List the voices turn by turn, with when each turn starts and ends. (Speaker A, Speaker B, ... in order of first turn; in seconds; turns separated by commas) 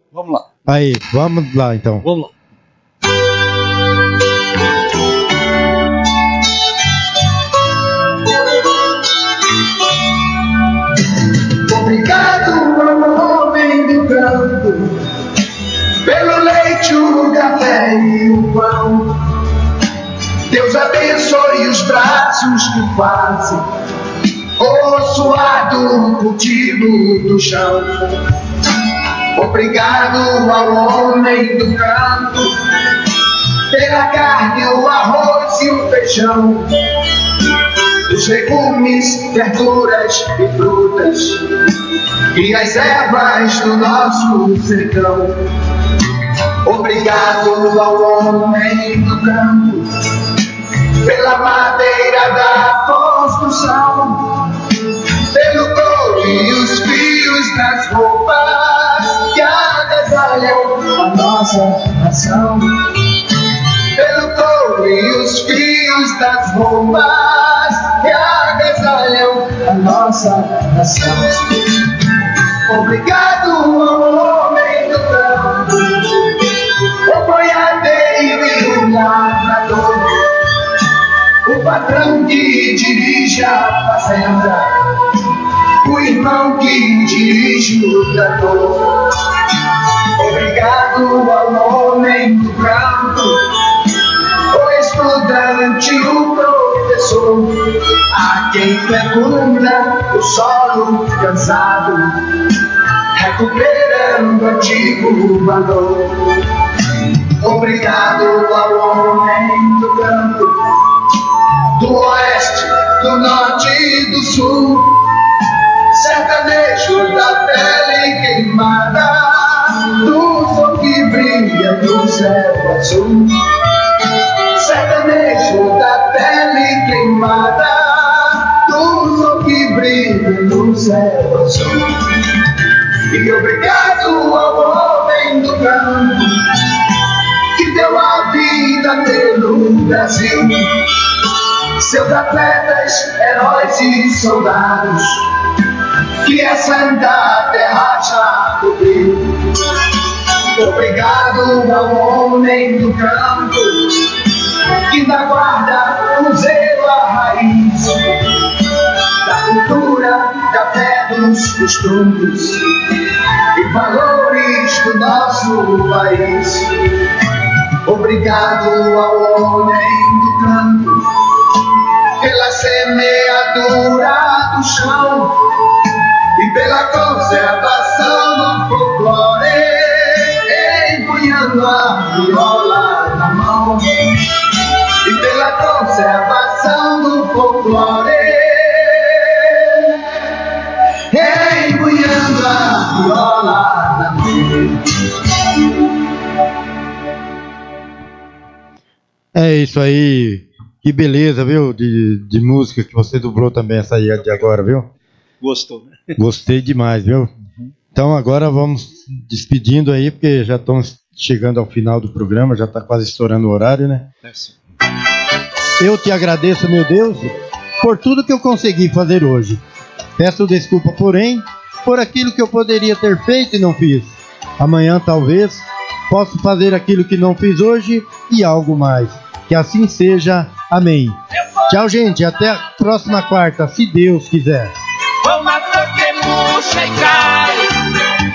Speaker A: 0.1-0.5, Speaker B: 0.7-2.0, Speaker A: 2.0-2.3, Speaker C: 11.7-15.0, Speaker C: 16.0-19.3, Speaker C: 20.5-23.6, Speaker C: 24.6-28.2, Speaker C: 29.4-32.5, Speaker C: 33.7-36.7, Speaker C: 38.1-41.5, Speaker C: 42.3-45.5, Speaker C: 46.6-49.9, Speaker C: 51.0-54.5, Speaker C: 55.3-62.9, Speaker C: 64.0-71.7, Speaker C: 72.7-76.1, Speaker C: 77.1-80.2, Speaker C: 81.5-84.7, Speaker C: 85.8-89.0, Speaker C: 90.2-93.4, Speaker C: 94.5-102.3, Speaker C: 103.2-106.4, Speaker C: 107.4-110.7, Speaker C: 111.8-115.0, Speaker C: 115.9-123.5, Speaker C: 124.5-132.0, Speaker C: 133.1-136.6, Speaker C: 137.6-140.8, Speaker C: 141.8-145.3, Speaker C: 146.2-149.4, Speaker C: 150.6-154.1, Speaker C: 154.9-158.0, Speaker C: 159.2-162.7, Speaker C: 163.6-166.7, Speaker C: 167.8-171.1, Speaker C: 172.2-175.4, Speaker C: 176.4-183.9, Speaker C: 185.1-189.4, Speaker C: 191.1-194.8, Speaker B: 199.3-204.9, Speaker A: 204.2-204.5, Speaker A: 205.4-206.0, Speaker B: 206.2-207.3, Speaker B: 207.9-214.1, Speaker A: 214.2-214.6, Speaker B: 215.8-219.6, Speaker B: 220.2-234.7, Speaker D: 235.2-237.9